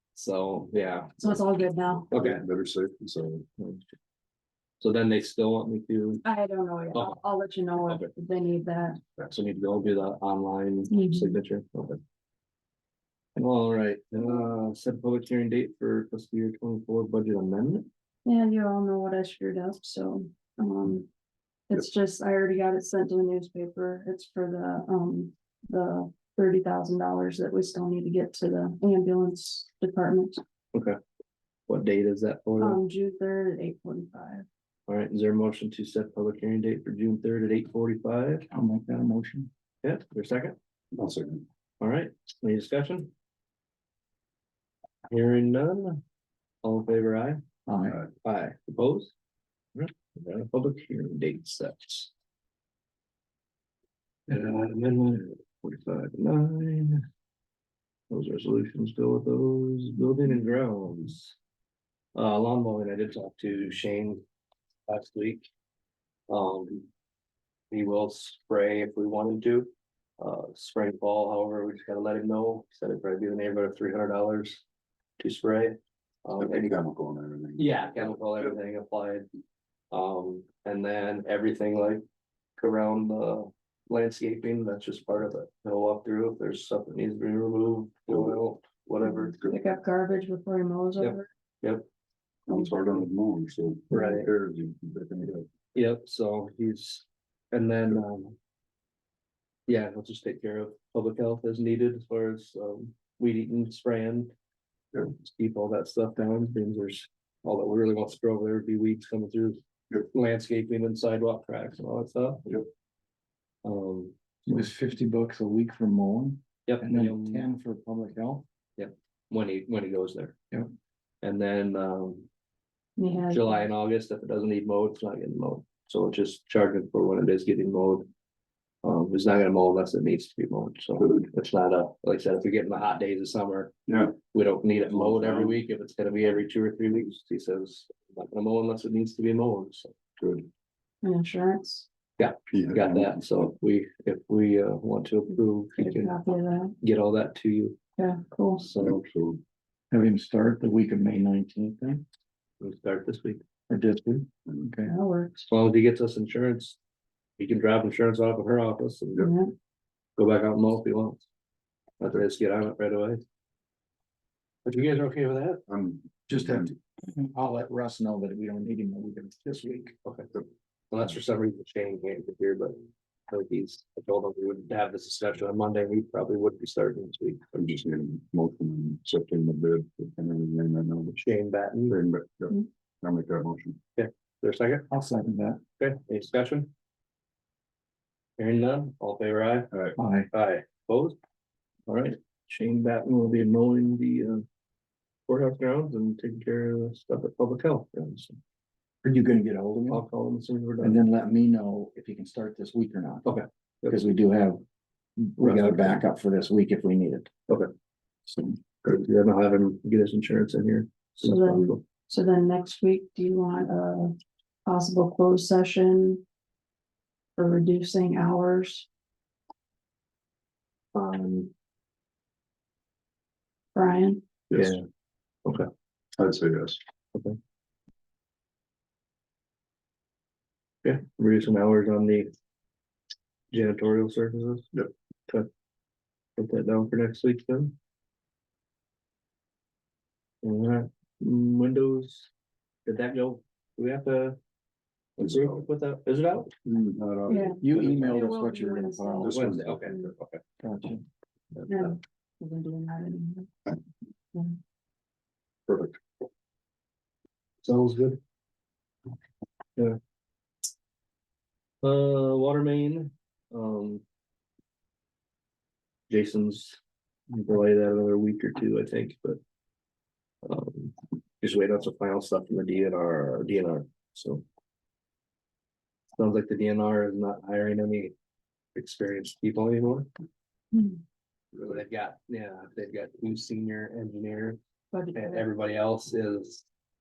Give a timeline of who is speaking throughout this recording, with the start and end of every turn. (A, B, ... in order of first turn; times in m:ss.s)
0:00.1-0:01.2 A
0:01.2-0:02.1 B
0:01.3-0:03.4 C
0:02.1-0:02.4 A
0:04.8-0:06.2 A
0:06.2-0:09.0 B
0:06.9-0:07.2 A
0:09.3-0:12.0 A
0:10.9-0:11.4 B
0:13.4-0:17.9 A
0:18.2-0:21.1 B
0:21.7-0:30.4 B
0:31.7-0:32.8 A
0:32.6-0:34.5 B
0:34.9-0:38.5 A
0:38.5-0:39.5 D
0:39.8-0:40.6 A
0:40.9-0:41.4 C
0:41.8-0:43.1 A
0:45.1-0:46.0 A
0:46.6-0:47.4 A
0:47.7-0:48.0 D
0:48.2-0:49.1 A
0:49.8-0:52.1 A
0:54.3-0:57.0 A
0:58.1-1:01.4 A
1:02.2-1:04.2 A
1:04.9-1:05.5 A
1:06.3-1:06.9 A
1:07.7-1:14.6 A
1:15.2-1:16.8 A
1:16.4-1:18.6 C
1:17.6-1:19.3 A
1:19.9-1:22.0 A
1:22.6-1:29.4 A
1:28.1-1:28.4 C
1:29.0-1:31.3 B
1:31.0-1:31.9 A
1:32.5-1:35.5 C
1:32.5-1:32.9 B
1:33.9-1:34.3 A
1:35.7-1:38.4 A
1:39.7-1:44.3 A
1:45.1-1:49.6 A
1:50.1-1:52.5 A
1:53.6-1:54.7 A
1:54.5-1:58.5 D
1:56.7-1:57.5 A
1:58.8-2:00.4 A
2:01.2-2:02.3 A
2:03.0-2:03.7 B
2:03.3-2:08.1 A
2:08.8-2:13.7 A
2:11.0-2:11.3 C
2:13.9-2:14.2 C
2:14.3-2:20.0 A
2:14.9-2:15.6 C
2:20.2-2:20.5 C
2:21.0-2:21.9 B
2:22.2-2:26.1 A
2:22.5-2:23.5 C
2:25.8-2:26.7 B
2:26.8-2:27.8 A
2:28.0-2:28.7 B
2:28.6-2:29.0 A
2:28.8-2:29.4 C
2:29.9-2:32.0 D
2:32.6-2:33.4 A
2:33.7-2:34.9 D
2:34.8-2:35.5 B
2:35.5-2:36.8 A
2:37.4-2:39.3 A
2:39.2-2:39.5 B
2:40.2-2:41.2 A
2:42.0-2:43.2 A
2:44.6-2:45.6 A
2:45.7-2:46.7 C
2:46.3-2:49.9 D
2:50.0-2:50.3 A
2:50.9-2:57.5 A
2:57.5-3:01.2 C
3:01.2-3:02.0 A
3:01.9-3:03.8 C
3:04.0-3:04.9 A
3:04.9-3:05.6 D
3:05.8-3:06.7 A
3:08.4-3:09.7 A
3:09.7-3:10.0 C
3:10.0-3:10.3 D
3:10.3-3:11.2 A
3:11.9-3:14.4 A
3:15.3-3:18.4 A
3:19.0-3:20.0 D
3:19.9-3:21.0 A
3:20.8-3:24.6 D
3:23.2-3:24.0 A
3:25.2-3:27.3 D
3:25.4-3:26.0 A
3:28.3-3:28.6 D
3:28.8-3:31.8 A
3:31.2-3:34.2 B
3:34.7-3:36.2 B
3:37.4-3:38.9 B
3:40.9-3:41.5 A
3:43.8-3:44.2 B
3:44.5-3:44.8 C
3:44.5-3:44.8 A
3:46.2-3:46.8 C
3:50.8-3:52.3 A
3:53.5-3:54.7 A
3:56.4-3:57.8 A
4:00.4-4:02.3 A
4:02.9-4:04.4 A
4:05.2-4:06.5 A
4:05.2-4:05.6 C
4:06.6-4:08.1 C
4:07.3-4:10.1 B
4:07.6-4:09.6 D
4:07.7-4:08.1 A
4:09.2-4:10.1 C
4:09.3-4:10.4 A
4:10.6-4:11.0 D
4:11.5-4:12.0 A
4:11.7-4:13.5 B
4:15.7-4:16.0 C
4:17.6-4:18.2 A
4:21.8-4:24.0 A
4:26.1-4:29.4 A
4:30.4-4:34.4 A
4:36.2-4:38.1 A
4:38.8-4:40.1 A
4:40.7-4:41.0 B
4:41.6-4:44.6 A
4:44.9-4:45.4 B
4:45.1-4:46.7 A